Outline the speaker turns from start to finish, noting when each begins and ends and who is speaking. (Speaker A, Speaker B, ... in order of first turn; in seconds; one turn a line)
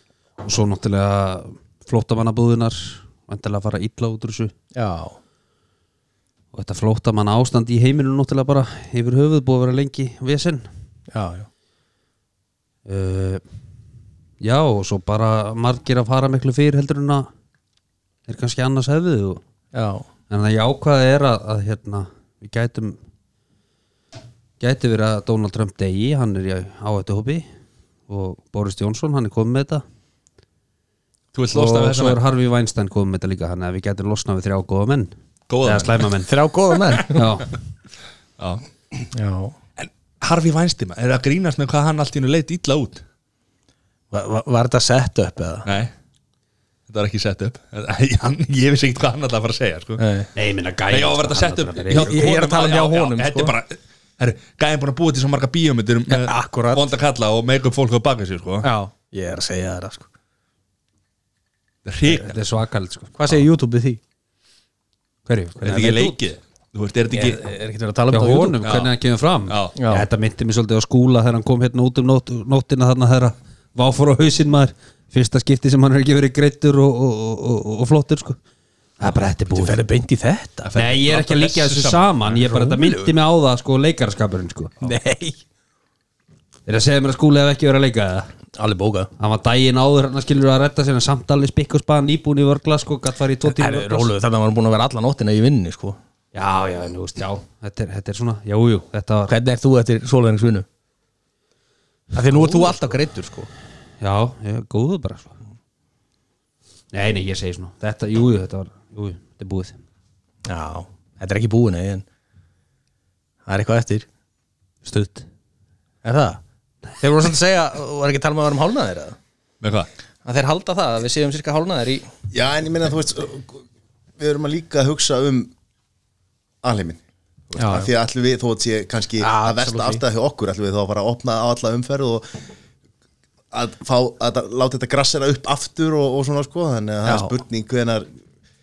Speaker A: 0.4-4.5
Speaker B: 4.7-5.2
Speaker A: 6.5-10.7
Speaker B: 11.1-11.5
Speaker A: 12.8-13.4
Speaker A: 14.4-17.3
Speaker A: 18.3-19.4
Speaker B: 19.7-20.1
Speaker A: 20.3-23.0
Speaker A: 24.6-27.4
Speaker A: 28.1-29.8
Speaker C: 31.3-32.2
Speaker A: 31.5-36.3
Speaker C: 35.5-36.1
Speaker B: 36.2-37.3
Speaker A: 37.1-37.5
Speaker C: 38.4-38.6
Speaker B: 39.1-39.5
Speaker C: 39.8-43.0
Speaker B: 44.1-45.6
Speaker C: 45.6-45.9
Speaker C: 46.9-50.0
Speaker B: 50.0-50.3
Speaker A: 50.3-52.1
Speaker C: 50.9-58.7
Speaker B: 51.9-53.5
Speaker B: 56.1-56.9
Speaker B: 58.6-60.1
Speaker C: 61.9-62.4
Speaker A: 62.1-63.4
Speaker B: 63.2-64.0
Speaker A: 65.2-66.2
Speaker C: 65.6-67.4
Speaker B: 67.1-68.6
Speaker A: 68.1-78.4
Speaker C: 68.6-68.9
Speaker C: 69.5-69.8
Speaker B: 69.8-70.0
Speaker A: 79.0-79.8
Speaker B: 79.5-80.7
Speaker C: 80.6-82.2
Speaker A: 80.7-84.7
Speaker B: 82.4-83.1
Speaker B: 84.8-85.4
Speaker A: 86.7-88.3
Speaker B: 88.5-89.1
Speaker A: 89.2-94.1
Speaker B: 93.4-96.0
Speaker A: 96.3-99.3
Speaker B: 99.3-100.7
Speaker B: 102.1-103.5
Speaker A: 102.3-102.7
Speaker A: 104.0-105.3
Speaker A: 106.9-109.8
Speaker B: 110.5-112.0
Speaker B: 113.5-114.0
Speaker A: 114.8-115.3
Speaker B: 116.0-116.4
Speaker B: 117.0-119.2
Speaker C: 119.6-119.9
Speaker B: 120.2-122.1
Speaker D: 122.3-123.6
Speaker D: 124.2-125.5
Speaker D: 126.6-132.4
Speaker B: 127.6-127.9
Speaker B: 129.2-130.0
Speaker D: 133.5-138.1
Speaker B: 137.1-137.3